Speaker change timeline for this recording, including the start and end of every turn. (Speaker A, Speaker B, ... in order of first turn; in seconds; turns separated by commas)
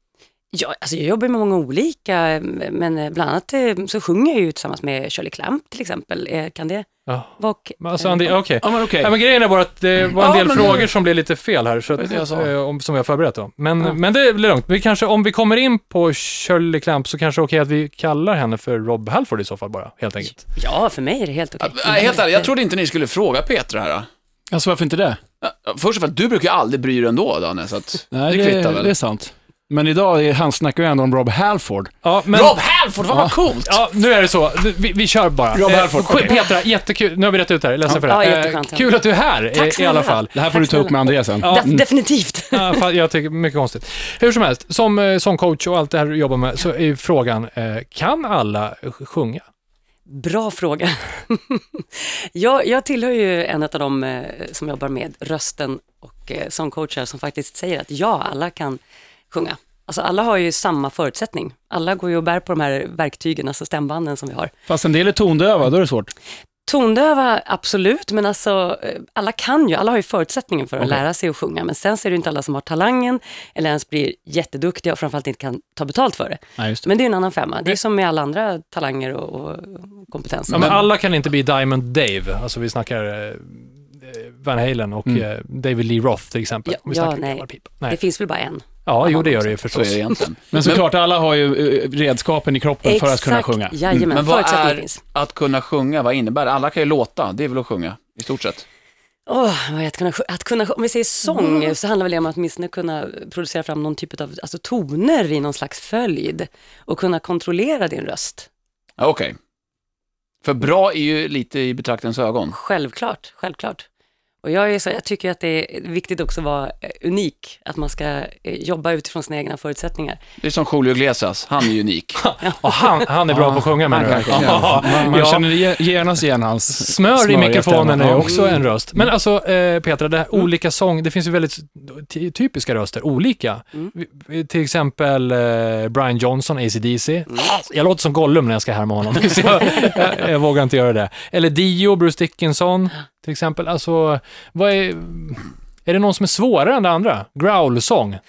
Speaker A: 0.5-6.9, Speaker B: 7.1-20.4, Speaker A: 7.4-8.3, Speaker C: 8.6-9.1, Speaker D: 10.2-10.9, Speaker D: 12.0-12.5, Speaker A: 20.2-22.5, Speaker D: 21.6-24.1, Speaker C: 24.5-25.2, Speaker D: 25.4-28.9, Speaker C: 28.1-31.9, Speaker B: 32.0-32.6, Speaker D: 32.3-33.8, Speaker C: 33.1-33.3, Speaker B: 33.6-40.4, Speaker C: 35.5-36.4, Speaker A: 37.9-39.0, Speaker A: 39.5-42.8, Speaker C: 40.3-41.8, Speaker B: 41.4-41.7, Speaker B: 42.5-49.4, Speaker A: 50.1-64.5, Speaker C: 64.7-66.1, Speaker A: 66.7-80.8, Speaker C: 76.6-76.9, Speaker B: 80.5-88.0, Speaker A: 86.7-89.5, Speaker B: 88.8-90.2, Speaker D: 89.7-90.8, Speaker C: 90.5-94.2, Speaker A: 92.8-95.0, Speaker D: 94.1-98.7, Speaker A: 99.3-108.5, Speaker D: 109.0-109.4, Speaker D: 110.4-112.6, Speaker A: 112.5-113.9, Speaker A: 114.4-120.2, Speaker D: 120.4-122.2, Speaker B: 122.2-125.8, Speaker A: 122.4-123.1, Speaker C: 123.3-129.1, Speaker D: 124.3-124.8, Speaker B: 126.8-148.2